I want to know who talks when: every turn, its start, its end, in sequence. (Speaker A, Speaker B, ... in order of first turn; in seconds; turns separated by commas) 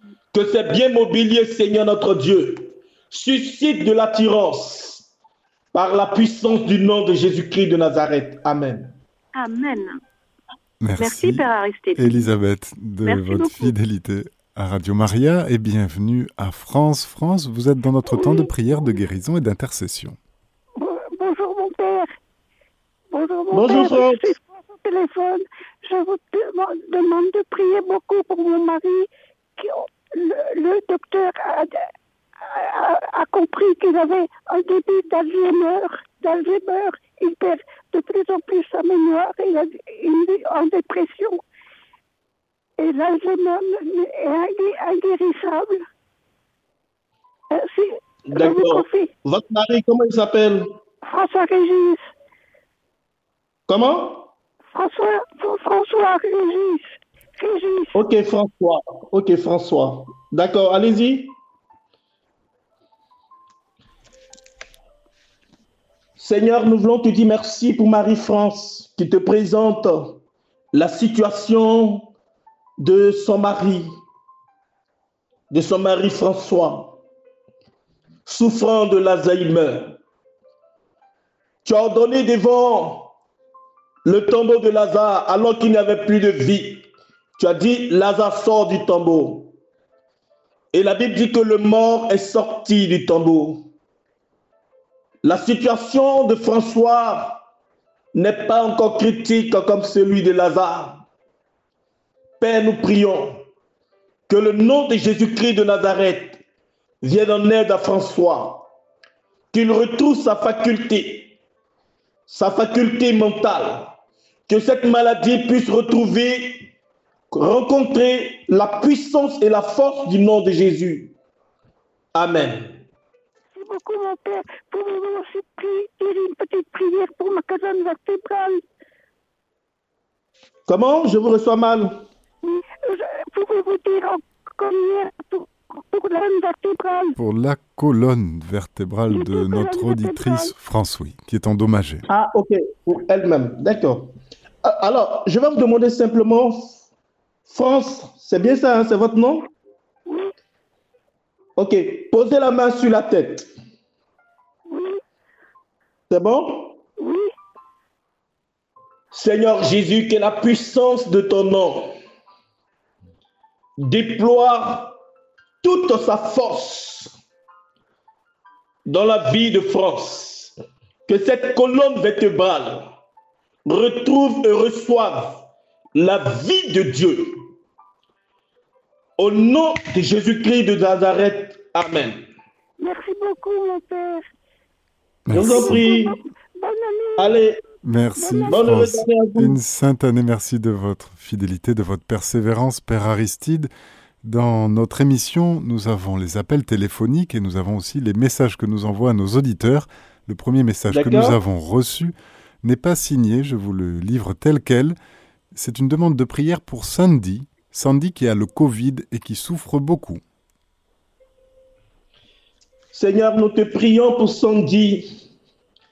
Speaker A: 0.3-5.1, Speaker A: 5.7-8.9, Speaker B: 9.3-10.0, Speaker C: 10.8-20.2, Speaker B: 11.0-12.3, Speaker B: 13.0-13.7, Speaker D: 18.1-18.5, Speaker D: 20.8-22.1, Speaker D: 23.1-31.9, Speaker A: 23.5-24.3, Speaker D: 32.5-41.4, Speaker D: 42.8-45.8, Speaker D: 47.5-49.1, Speaker A: 48.3-50.8, Speaker D: 51.1-52.0, Speaker A: 53.7-54.3, Speaker D: 54.7-58.0, Speaker A: 57.9-61.4, Speaker A: 66.2-70.2, Speaker A: 70.7-72.1, Speaker A: 72.8-74.0, Speaker A: 75.5-77.0, Speaker A: 78.3-80.0, Speaker A: 81.7-83.1, Speaker A: 84.0-89.6, Speaker A: 90.7-93.7, Speaker A: 95.2-97.5, Speaker A: 98.1-101.0, Speaker A: 102.4-103.4, Speaker A: 104.3-106.4, Speaker A: 107.0-108.7, Speaker A: 109.5-111.4, Speaker A: 112.3-114.0, Speaker A: 114.5-116.7, Speaker A: 117.3-121.1, Speaker A: 122.1-122.8, Speaker D: 123.5-128.6, Speaker A: 130.7-132.0, Speaker D: 132.4-137.2, Speaker C: 137.2-142.1, Speaker D: 139.1-140.5, Speaker A: 142.1-146.8, Speaker A: 147.5-149.5, Speaker D: 150.1-150.3, Speaker A: 151.6-153.5, Speaker D: 154.7-155.0, Speaker A: 156.1-156.8, Speaker D: 157.0-157.3, Speaker A: 159.1-161.9, Speaker A: 163.8-165.0, Speaker A: 165.6-167.2, Speaker A: 168.9-172.9, Speaker A: 173.7-177.5, Speaker A: 179.2-182.2, Speaker D: 182.8-184.2, Speaker C: 185.3-185.9, Speaker A: 185.3-186.2, Speaker D: 185.3-187.4, Speaker A: 187.2-187.6, Speaker C: 187.8-193.7, Speaker D: 188.2-188.9, Speaker A: 188.5-189.6, Speaker C: 194.2-205.0, Speaker A: 200.9-201.4, Speaker C: 205.6-210.2, Speaker A: 212.9-215.2